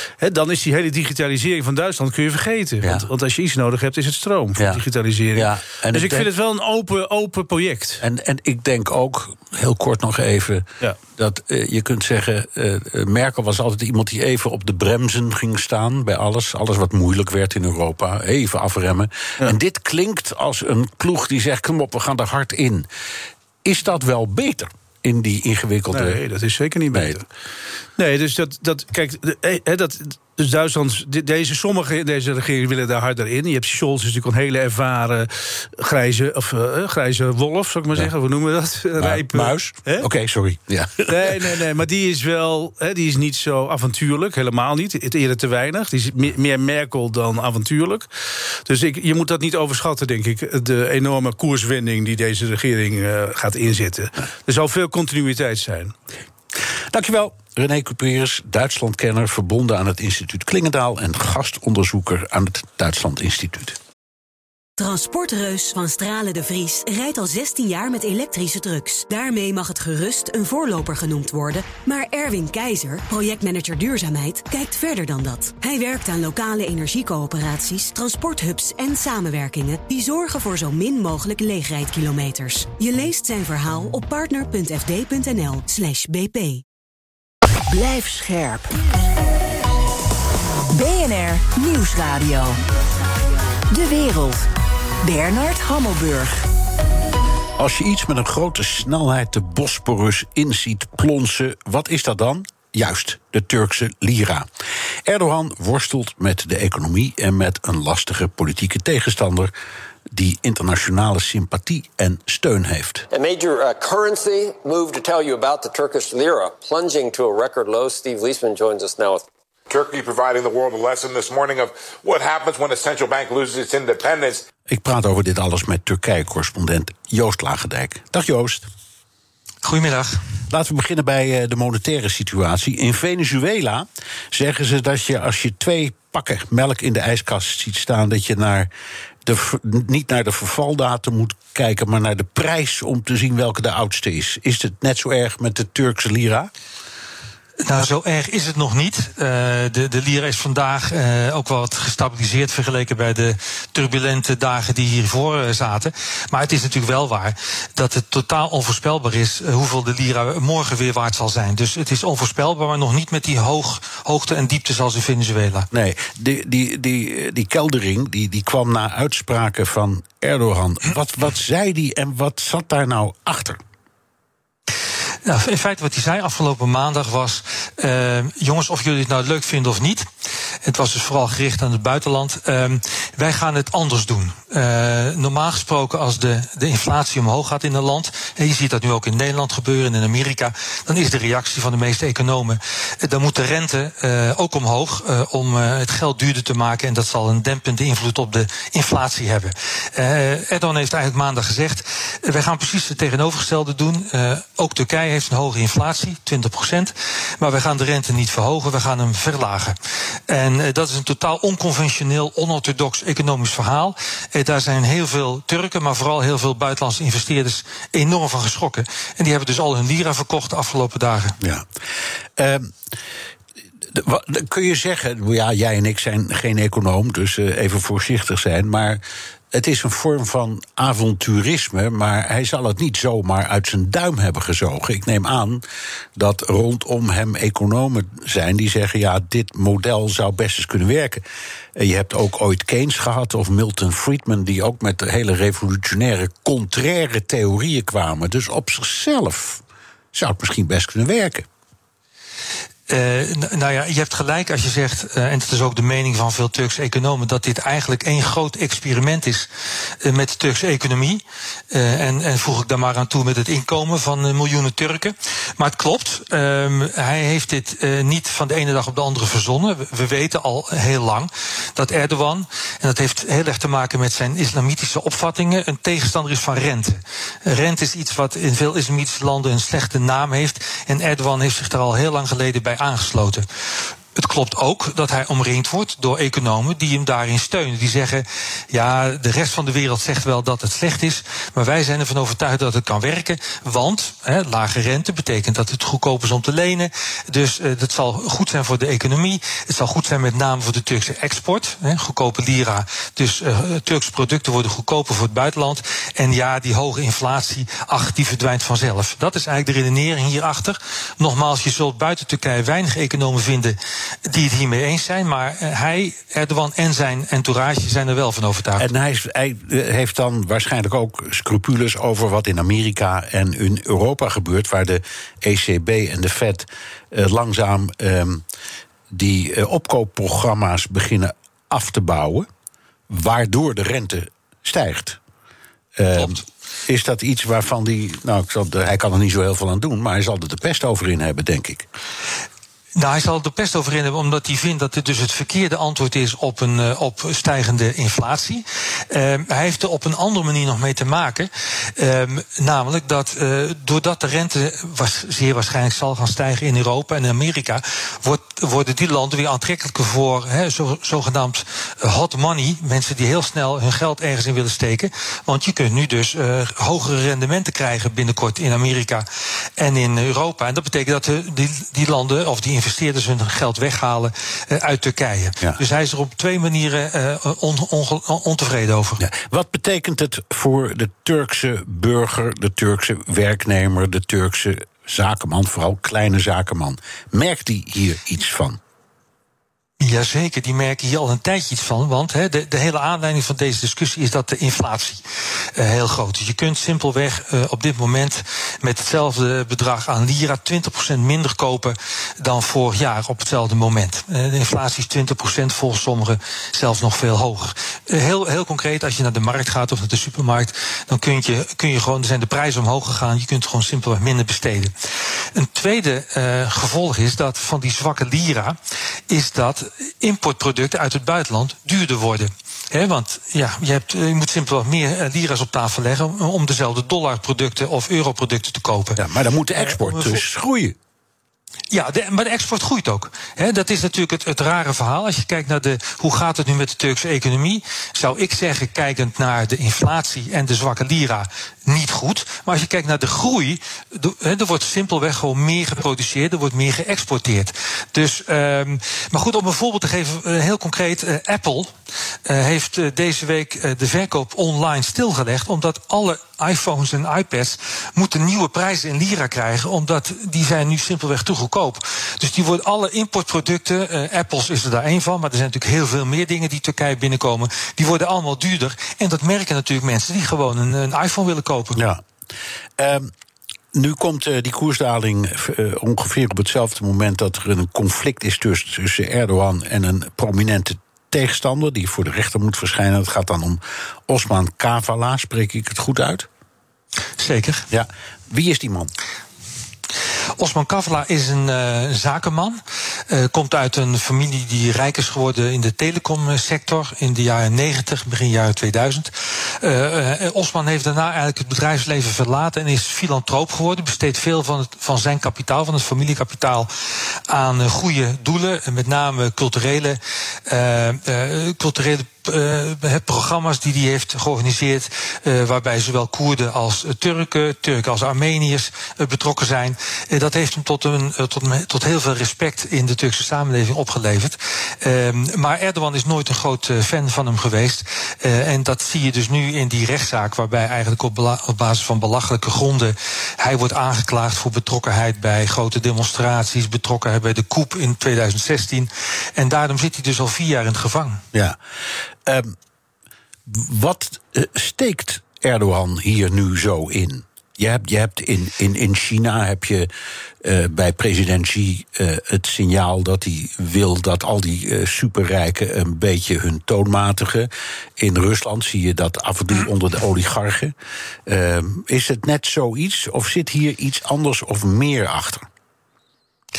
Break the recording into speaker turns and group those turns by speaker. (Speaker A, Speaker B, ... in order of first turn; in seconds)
Speaker A: 0.2-8.0, 25.9-27.3, 28.0-40.1, 41.1-48.1, 48.6-55.9
Speaker B: 2.8-3.1, 4.6-4.8, 5.3-6.3, 8.0-22.9, 23.6-26.2, 26.9-27.2, 39.0-41.5, 56.9-63.8, 97.6-104.5, 105.0-109.5, 110.1-113.1, 124.7-128.7, 130.5-138.7, 139.2-146.5, 165.7-173.6, 221.4-221.7, 222.4-222.8, 223.9-235.6, 236.2-241.2, 241.8-249.6, 250.1-251.5, 318.8-328.4, 329.1-332.5, 333.1-335.2, 336.0-341.9, 379.2-388.8, 429.2-431.0, 472.0-472.2, 473.0-473.3, 473.9-486.5, 487.9-489.1, 541.5-541.8, 542.5-542.8, 543.7-550.1, 550.6-561.0, 561.5-565.6
Speaker C: 64.8-86.6
Speaker D: 87.7-88.7, 90.7-92.6, 93.7-94.5, 95.0-96.4
Speaker E: 113.1-119.3
Speaker F: 119.7-124.5
Speaker G: 129.6-130.2, 147.6-165.7, 175.3-180.1, 180.6-209.8, 210.3-221.4, 252.9-259.5, 260.0-283.5, 284.1-318.9, 343.0-369.3, 369.8-379.2, 390.0-395.2, 395.8-414.9, 415.6-418.8, 419.3-429.2, 429.8-430.4, 431.9-451.9, 452.5-472.0, 487.4-487.9, 490.6-506.9, 507.5-541.4